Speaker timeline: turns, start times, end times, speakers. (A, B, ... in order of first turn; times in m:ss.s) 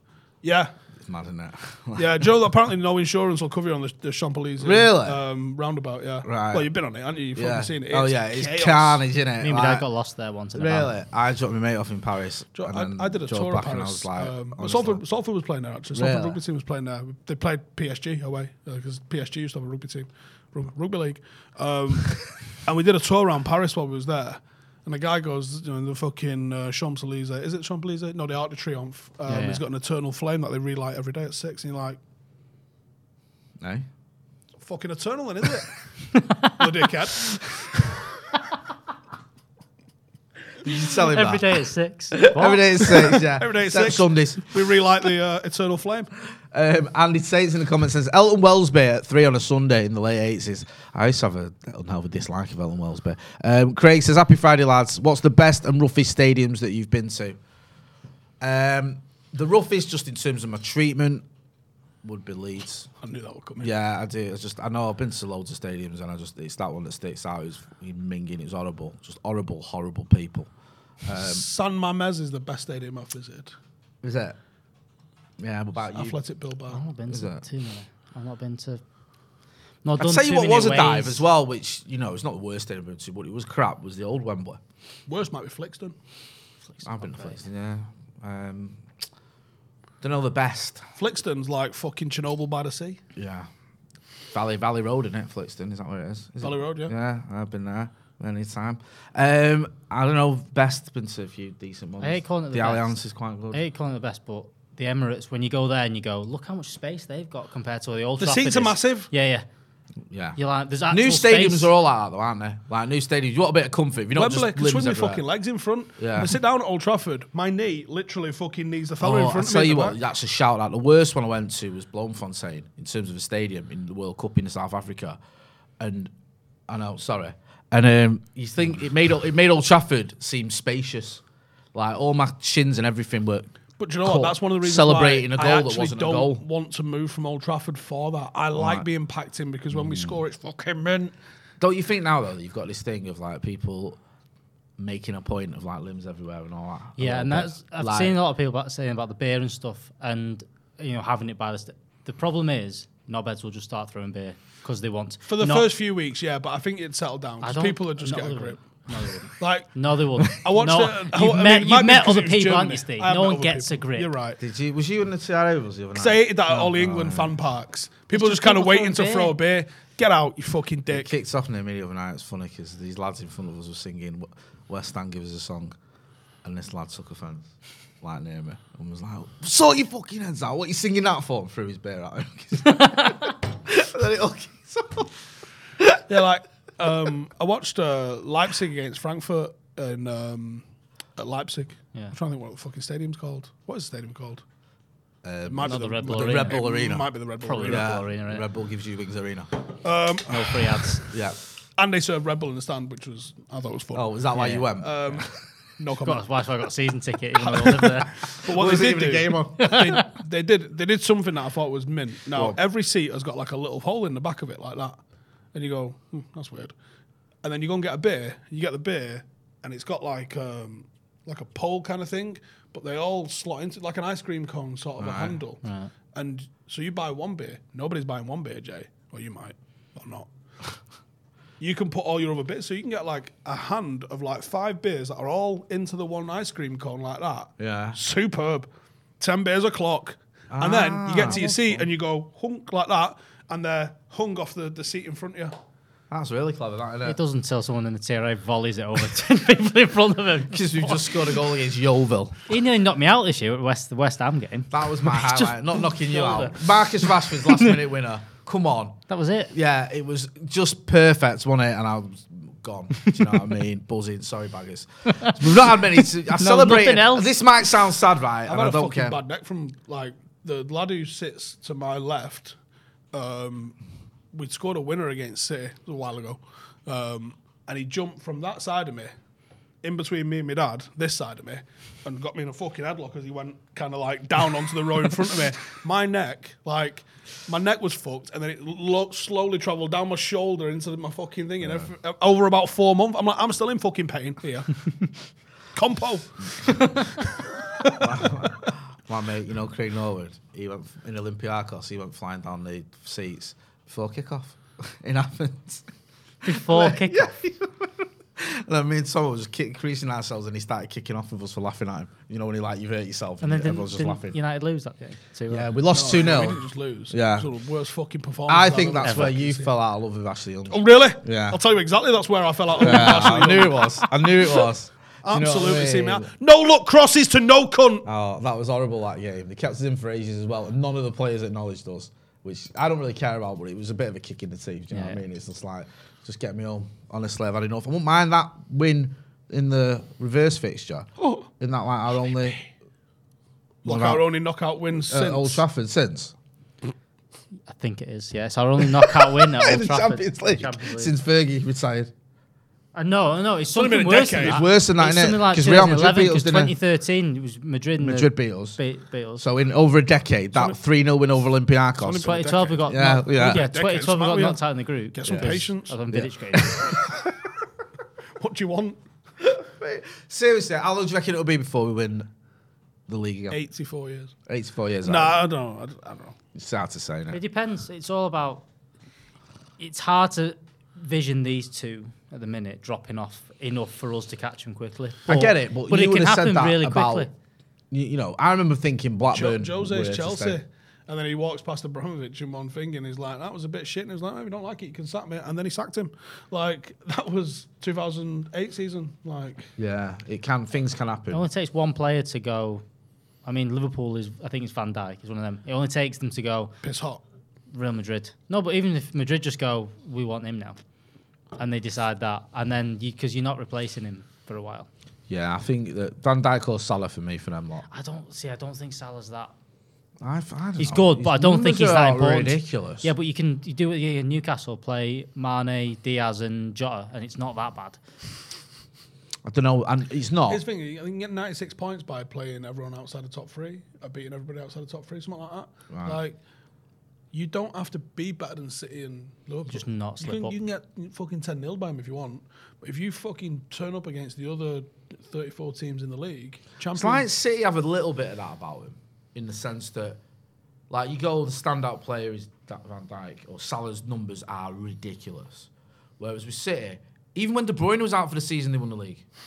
0:00.4-0:00.7 A
0:01.0-0:02.1 B
0:02.0-0:09.0 A
0:04.6-0:05.2 B
0:06.2-0:06.7 B
0:07.4-0:09.8 B
0:09.4-0:10.9 C
0:10.6-0:15.0 B
0:12.6-0:32.0 A
0:15.9-0:16.4 B
0:29.3-0:29.6 C
0:33.6-0:33.9 B
0:34.6-0:35.8 A
0:36.2-0:36.5 C
0:36.4-0:37.5 A
0:40.6-0:41.6 B
0:41.0-0:42.7 C
0:42.1-0:44.5 B
0:42.9-0:46.1 A
0:46.5-0:57.4 B
0:58.4-1:01.2 B
1:02.0-1:02.9 B
1:03.0-1:03.7 A
1:03.6-1:10.5 B
1:11.0-1:11.4 B
1:11.2-1:13.5 A
1:14.0-1:14.4 B
1:15.4-1:16.2 B
1:15.9-1:16.8 A
1:16.7-1:18.8 C
1:17.1-1:17.4 B
1:19.8-1:21.2 C
1:20.0-1:24.6 B
1:25.1-1:25.9 A
1:26.7-1:27.4 C
1:26.8-1:28.8 B
1:30.0-1:30.8 B
1:31.0-1:33.0 A
1:33.2-1:33.5 B
1:34.3-1:43.6 B
1:36.4-1:36.9 A
1:42.0-1:42.9 C
1:43.5-1:49.5 C
1:48.2-1:49.1 A
1:50.1-1:55.2 B
1:50.4-1:51.7 C
1:54.2-2:00.0 A
1:56.0-1:56.4 B
1:59.0-2:05.2 B
2:05.8-2:06.1 B
2:06.7-2:11.2 B
2:11.7-2:16.4 B
2:13.8-2:21.1 A
2:18.6-2:18.9 B
2:19.7-2:20.2 B
2:21.6-2:24.0 B
2:24.8-2:28.2 B
2:27.0-2:35.7 C
2:35.3-2:38.6 A
2:37.4-2:44.1 C
2:39.4-2:39.7 A
2:40.2-2:44.4 A
2:44.4-2:47.4 B
2:46.0-2:51.1 A
2:48.1-2:49.4 C
2:50.9-2:55.8 B
2:56.4-2:57.5 B
2:58.0-3:05.2 B
3:02.8-3:03.1 C
3:05.8-3:06.0 B
3:06.1-3:10.6 A
3:11.2-3:14.4 A
3:15.2-3:17.1 B
3:15.5-3:18.0 A
3:15.6-3:16.6 C
3:17.4-3:18.4 C
3:17.6-3:19.5 B
3:19.8-3:20.8 A
3:20.3-3:21.0 C
3:21.1-3:21.4 B
3:21.8-3:24.1 A
3:23.9-3:25.2 B
3:24.3-3:24.7 C
3:24.8-3:26.3 A
3:26.0-3:28.3 C
3:28.2-3:35.0 A
3:28.4-3:29.9 B
3:29.6-3:30.1 C
3:32.3-3:32.6 B
3:35.5-3:36.7 A
3:37.4-3:50.3 A
3:45.0-3:45.4 B
3:45.6-3:45.9 C
3:51.6-3:58.7 A
3:57.6-3:58.0 B
3:59.2-4:05.5 A
4:00.5-4:01.4 B
4:01.2-4:01.8 C
4:06.1-4:07.2 B
4:07.0-4:11.3 C
4:10.5-4:12.4 B
4:12.5-4:17.8 C
4:14.7-4:19.0 B
4:19.1-4:19.5 C
4:19.5-4:29.2 B
4:26.3-4:27.3 C
4:28.5-4:32.6 A
4:33.1-4:33.8 A
4:34.3-4:39.1 A
4:39.8-4:55.1 A
4:51.6-4:51.9 B
4:55.7-4:58.3 A
4:57.9-5:05.9 B
5:06.4-5:07.3 C
5:06.4-5:14.4 B
5:13.4-5:15.7 C
5:15.5-5:17.5 B
5:15.9-5:19.7 A
5:18.5-5:21.6 B
5:19.0-5:19.4 C
5:20.7-5:24.6 A
5:22.8-5:26.3 B
5:25.2-5:28.1 A
5:28.0-5:42.6 B
5:34.9-5:35.2 C
5:41.2-5:41.5 A
5:43.8-5:45.6 A
5:43.8-5:44.2 B
5:45.1-5:46.3 B
5:47.7-5:51.1 C
5:49.1-5:52.1 B
5:52.9-5:59.4 C
5:53.7-5:54.6 A
5:54.4-5:56.7 B
5:58.0-5:58.8 B
5:59.4-6:03.6 B
6:02.0-6:04.6 A
6:02.2-6:06.9 C
6:05.1-6:06.0 A
6:05.2-6:05.6 B
6:06.1-6:07.3 B
6:08.4-6:09.0 A
6:09.4-6:12.3 B
6:13.1-6:13.6 B
6:13.5-6:14.4 A
6:14.5-6:15.4 B
6:15.0-6:16.4 A
6:16.6-6:17.4 B
6:17.3-6:18.6 C
6:19.8-6:27.3 C
6:25.3-6:27.3 B
6:27.9-6:30.6 B
6:29.3-6:39.7 A
6:39.8-6:41.4 B
6:41.3-6:42.8 C
6:43.4-6:46.8 C
6:46.8-6:47.2 A
6:47.7-6:50.8 C
6:51.6-6:54.9 C
6:55.3-6:57.9 B
6:57.9-6:59.5 C
7:00.2-7:03.1 B
7:00.8-7:08.0 C
7:09.4-7:10.6 B
7:10.5-7:16.4 A
7:15.9-7:16.2 B
7:17.3-7:27.3 A
7:19.7-7:20.6 C
7:27.0-7:30.2 B
7:30.9-7:39.2 B